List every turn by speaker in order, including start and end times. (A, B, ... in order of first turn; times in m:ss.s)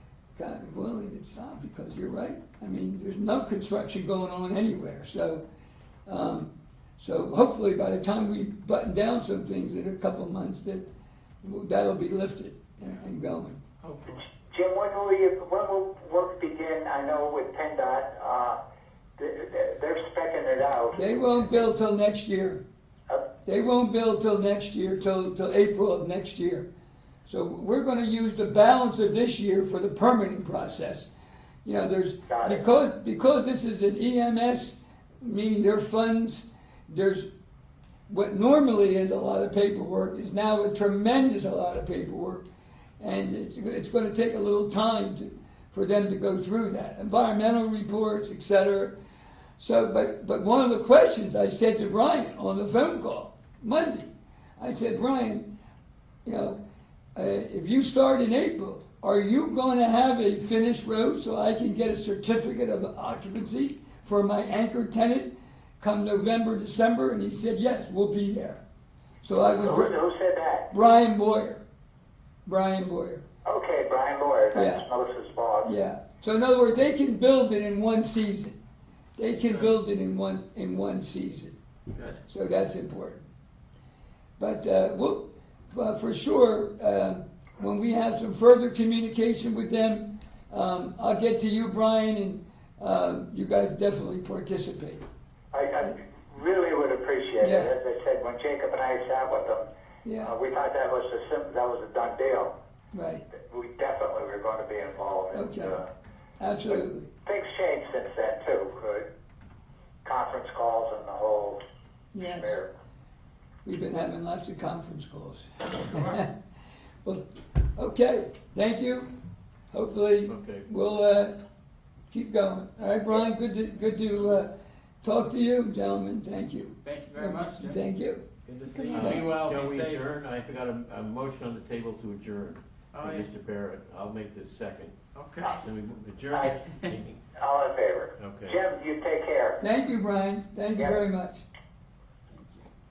0:00.4-0:05.4 A
0:06.1-0:10.8 A
0:11.4-0:13.6 A
0:13.8-0:14.2 B
0:14.5-0:18.6 C
0:19.2-0:21.0 C
0:21.0-0:22.6 A
0:23.4-0:26.7 A
0:27.3-0:31.1 A
0:31.6-0:37.3 A
0:32.3-0:32.6 C
0:38.1-0:42.4 A
0:43.0-0:48.9 A
0:49.6-0:55.5 A
0:56.2-0:56.6 A
0:57.1-1:08.6 A
1:09.2-1:10.0 A
1:09.3-1:10.7 C
1:10.7-1:11.6 A
1:12.4-1:13.2 A
1:13.4-1:15.7 C
1:14.5-1:14.8 A
1:15.6-1:18.6 A
1:19.2-1:21.6 A
1:21.9-1:22.2 D
1:22.3-1:23.2 A
1:24.4-1:35.0 A
1:35.5-1:39.7 C
1:37.4-1:37.7 A
1:40.0-1:40.3 A
1:40.2-1:42.5 C
1:42.9-1:43.2 A
1:43.3-1:45.9 C
1:45.3-1:45.8 A
1:46.4-1:47.1 A
1:46.6-1:49.0 C
1:50.0-1:51.6 C
1:52.1-1:52.5 A
1:52.2-1:52.7 C
1:53.6-1:56.3 A
1:55.8-1:56.2 B
1:57.8-1:59.1 A
1:59.7-2:01.4 A
2:00.2-2:00.7 D
2:02.1-2:04.5 A
2:05.0-2:08.2 A
2:06.8-2:07.8 B
2:08.4-2:17.2 D
2:08.6-2:10.0 B
2:09.0-2:09.3 A
2:12.9-2:13.3 B
2:15.1-2:15.6 B
2:17.4-2:19.6 C
2:18.2-2:18.6 D
2:19.6-2:21.4 A